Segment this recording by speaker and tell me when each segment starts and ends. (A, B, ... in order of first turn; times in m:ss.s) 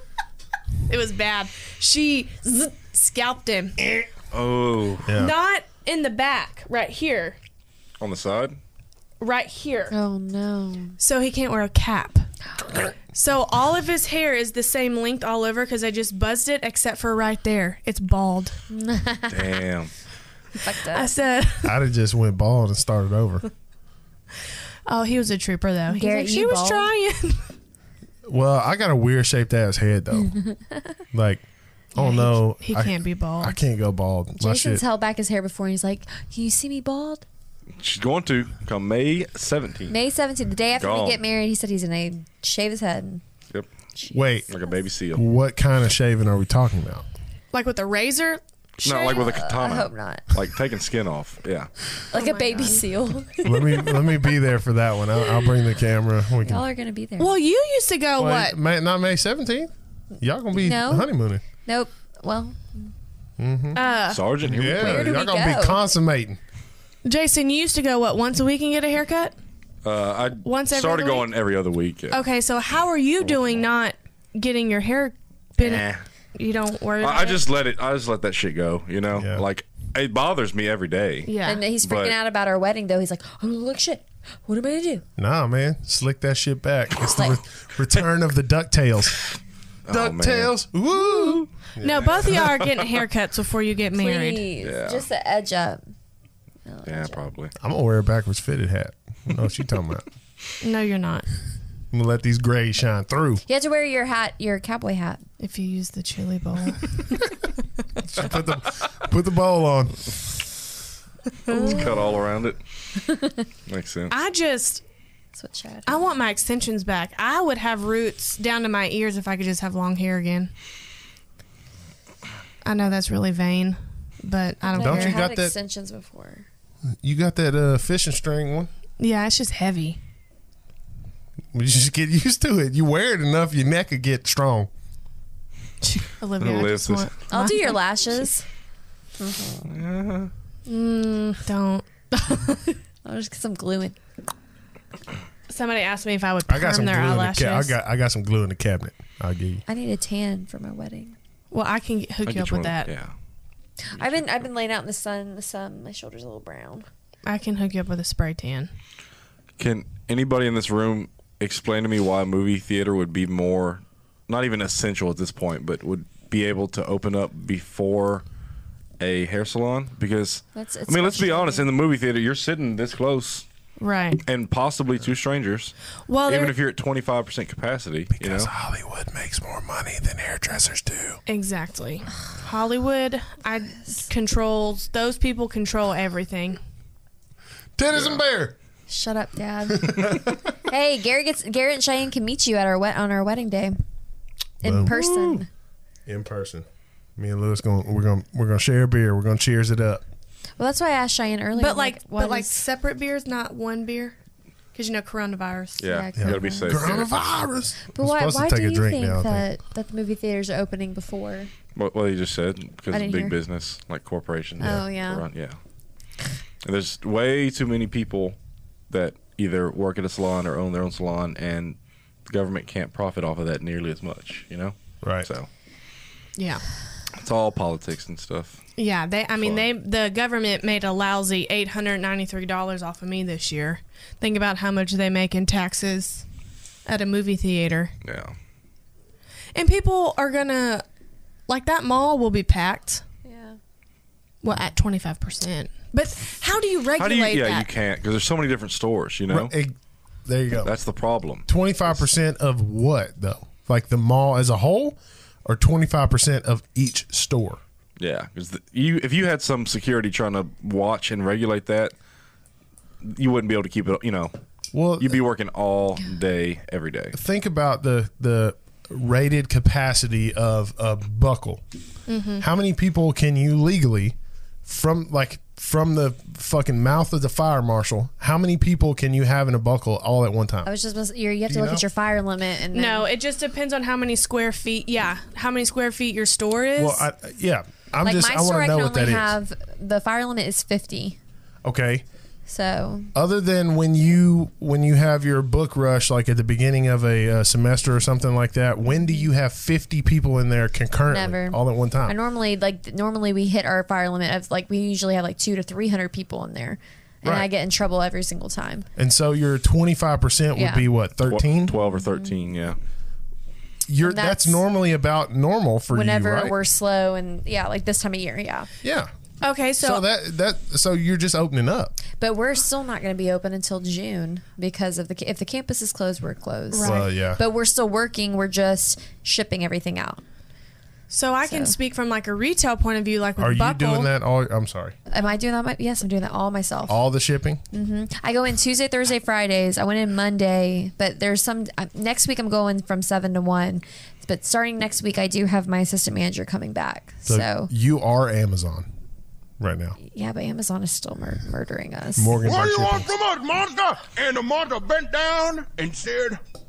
0:00.9-0:03.8 A
0:04.3-0:05.1 B
0:05.0-0:05.4 C
0:05.1-0:07.4 A
0:08.0-0:08.6 B
0:09.2-0:09.9 A
0:09.9-0:11.0 D
0:11.0-0:12.3 A
0:13.1-0:18.6 A
0:18.7-0:19.6 D
0:19.3-0:19.9 B
0:20.6-0:21.1 D
0:20.8-0:21.8 A
0:21.6-0:23.5 C
0:24.9-0:27.5 A
0:25.9-0:26.9 D
0:28.3-0:30.3 C
0:30.2-0:31.0 D
0:31.1-0:31.4 C
0:32.0-0:34.8 C
0:32.0-0:33.6 A
0:34.4-0:37.2 D
0:37.8-0:39.9 B
0:39.9-0:43.2 D
0:40.8-0:41.2 B
0:44.0-0:44.5 D
0:44.1-0:44.5 C
0:44.5-0:45.2 B
0:45.1-0:47.0 C
0:47.5-0:49.2 A
0:48.8-0:51.7 B
0:48.9-0:50.3 D
0:52.1-0:54.0 D
0:52.1-0:52.8 A
0:53.4-0:56.6 C
0:56.4-0:57.4 D
0:57.2-0:58.6 A
0:58.2-1:01.4 C
1:00.6-1:02.9 D
1:03.4-1:03.8 C
1:03.7-1:04.2 A
1:04.1-1:05.1 B
1:04.4-1:06.4 C
1:04.6-1:05.8 D
1:07.0-1:09.4 A
1:09.8-1:12.2 B
1:10.4-1:11.3 A
1:12.1-1:17.4 A
1:13.2-1:13.6 B
1:15.6-1:16.0 B
1:17.0-1:22.2 B
1:19.2-1:19.4 C
1:21.3-1:21.6 A
1:21.4-1:25.0 D
1:25.2-1:29.2 C
1:29.9-1:30.5 B
1:29.9-1:32.6 C
1:31.8-1:34.5 A
1:34.0-1:35.8 D
1:34.6-1:35.0 B
1:36.7-1:37.3 D
1:36.9-1:37.5 B
1:37.6-1:40.1 C
1:40.6-1:41.3 A
1:41.9-1:43.4 C
1:43.5-1:45.2 D
1:45.4-1:47.4 A
1:48.0-1:50.1 C
1:51.5-1:51.9 A
1:51.5-1:52.6 B
1:53.7-1:54.1 B
1:54.1-1:54.8 A
1:55.4-1:56.1 D
1:55.9-2:00.5 A
2:02.6-2:05.2 A
2:04.7-2:06.5 D
2:04.8-2:05.5 C
2:07.0-2:08.7 C
2:09.0-2:10.0 A
2:11.5-2:14.7 C
2:15.8-2:17.8 A
2:16.4-2:17.1 B
2:17.3-2:18.4 D
2:19.2-2:19.7 D
2:19.7-2:20.3 B
2:20.7-2:22.8 A
2:23.0-2:24.0 D
2:25.5-2:27.7 A
2:26.5-2:29.6 C
2:29.7-2:31.2 D
2:31.5-2:32.9 A
2:32.2-2:33.1 B
2:33.9-2:36.9 D
2:37.2-2:38.7 A
2:39.6-2:48.2 B
2:49.0-2:53.4 B
2:50.6-2:51.7 D
2:53.8-2:54.2 A
2:54.2-2:55.7 B
2:56.1-2:56.6 A
2:56.3-2:58.5 B
2:58.1-3:01.2 C
3:01.3-3:06.6 A
3:07.8-3:08.6 C
3:07.9-3:08.2 B
3:08.9-3:13.8 D
3:09.7-3:10.4 C
3:14.6-3:15.5 D
3:14.6-3:14.9 C
3:14.9-3:15.4 B
3:16.1-3:16.6 C
3:17.2-3:20.0 C
3:20.6-3:22.6 D
3:21.6-3:24.2 A
3:24.7-3:25.8 A
3:25.8-3:27.2 B
3:25.8-3:27.0 D
3:26.2-3:29.5 C
3:27.9-3:31.5 D
3:31.8-3:35.6 B
3:32.9-3:33.4 D
3:34.6-3:35.2 D
3:36.6-3:38.4 B
3:38.9-3:41.8 B
3:42.3-3:45.5 B
3:46.4-3:46.6 A
3:47.2-3:48.6 B
3:48.8-3:56.2 A
3:49.4-3:49.7 B
3:56.9-3:57.9 A
3:58.0-3:58.4 B
3:59.6-4:00.8 A
4:01.5-4:03.0 A
4:03.2-4:03.6 D
4:04.4-4:07.7 A
4:07.0-4:09.5 B
4:09.3-4:10.7 C
4:10.6-4:11.5 B
4:11.5-4:17.6 C
4:18.0-4:21.9 B
4:23.0-4:24.3 B
4:24.7-4:25.2 C
4:25.0-4:27.2 B
4:27.1-4:31.6 C
4:32.1-4:32.4 A
4:32.4-4:40.7 C
4:40.6-4:43.1 D
4:41.5-4:41.8 C
4:42.7-4:47.1 A
4:46.8-4:49.4 C
4:48.0-4:51.2 D
4:51.6-4:52.0 C
4:52.5-4:53.1 D
4:53.1-5:02.2 C
5:01.1-5:08.9 D
5:09.0-5:11.8 C
5:10.6-5:10.9 D
5:11.2-5:12.8 B
5:11.7-5:12.3 D
5:13.9-5:16.6 C
5:14.0-5:14.6 D
5:15.9-5:18.7 D
5:18.8-5:19.1 C
5:19.4-5:20.0 A
5:19.8-5:22.0 C
5:22.2-5:30.2 D
5:26.7-5:27.0 A
5:26.8-5:27.4 C
5:31.1-5:34.1 A
5:31.4-5:31.8 D
5:33.4-5:35.0 C
5:35.1-5:37.0 D
5:36.9-5:37.6 C
5:37.7-5:47.7 D
5:47.3-5:48.9 C
5:49.6-5:50.0 C
5:50.0-5:52.4 D
5:52.2-5:53.1 C
5:52.4-5:56.4 E